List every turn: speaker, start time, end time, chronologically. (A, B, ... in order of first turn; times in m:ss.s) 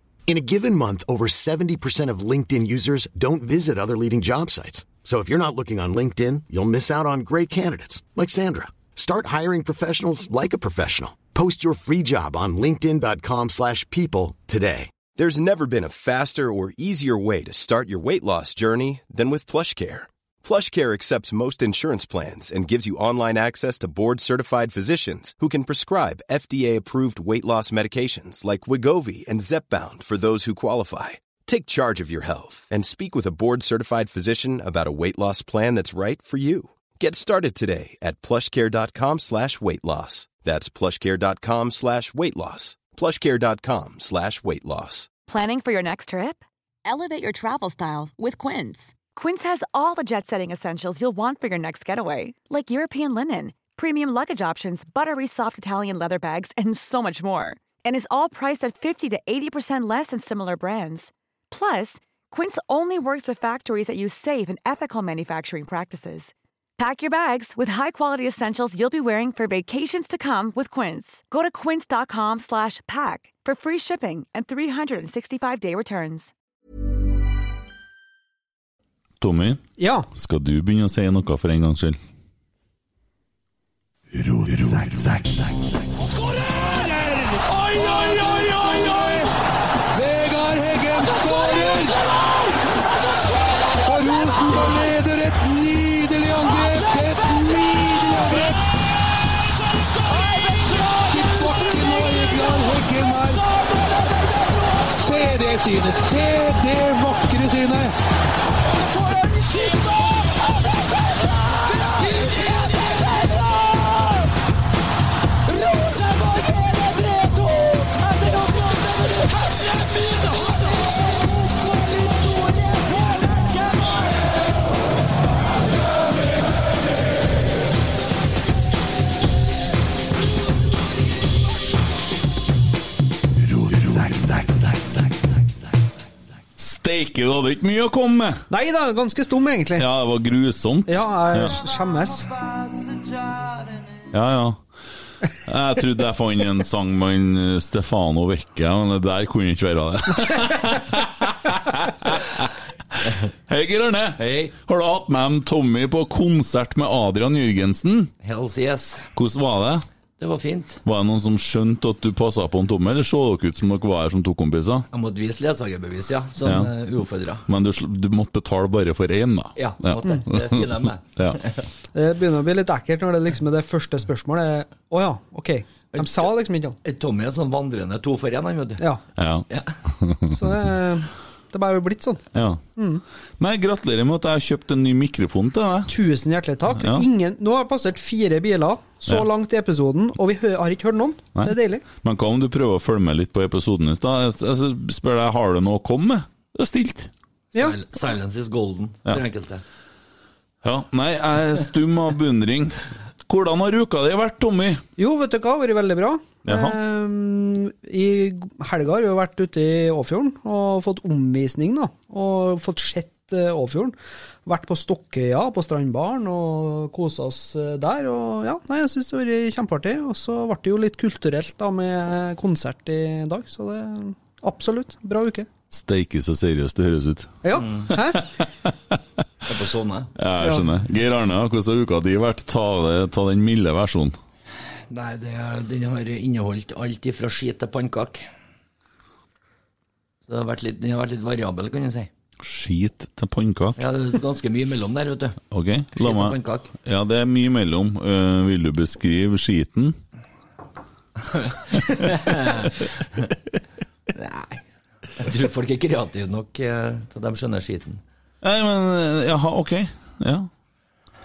0:00.3-0:15.0 A
0:15.1-0:45.1 B
0:45.3-1:16.3 C
1:19.2-1:22.0 D
1:19.8-1:20.1 E
1:26.5-1:29.3 F
1:29.9-1:32.1 F
1:33.8-1:38.7 F
1:40.3-1:43.5 F
1:44.9-1:47.9 F
2:16.6-2:18.5 D
2:18.5-2:19.9 E
2:19.8-2:21.6 D
2:20.9-2:22.3 E
2:24.1-2:24.6 D
2:25.4-2:38.1 D
2:34.2-2:34.5 G
2:38.2-2:39.1 G
2:39.2-2:39.9 D
2:40.2-2:40.8 G
2:40.8-2:44.9 D
2:44.9-2:47.4 G
2:46.4-2:46.7 D
2:47.5-2:51.4 D
2:49.6-2:51.6 G
2:51.9-2:56.8 E
2:55.9-2:56.3 G
2:56.8-2:58.8 G
2:59.2-3:00.7 D
2:59.5-2:59.8 G
3:00.3-3:02.3 E
3:02.3-3:02.6 D
3:02.8-3:03.0 E
3:03.4-3:05.9 D
3:05.9-3:11.8 E
3:06.7-3:07.1 D
3:11.4-3:17.1 D
3:17.5-3:19.6 G
3:20.6-3:24.8 D
3:25.0-3:45.5 E
3:26.4-3:26.8 D
3:45.7-3:49.0 D
3:47.4-3:48.3 E
3:47.6-3:47.9 G
3:49.5-3:50.1 G
3:50.2-3:54.2 D
3:54.9-3:58.3 G
4:00.3-4:02.1 G
4:02.4-4:03.8 D
4:03.8-4:05.4 G
4:05.5-4:10.0 D
4:05.9-4:06.7 G
4:11.3-4:13.3 G
4:14.1-4:14.6 G
4:15.2-4:18.0 G
4:18.4-4:20.5 D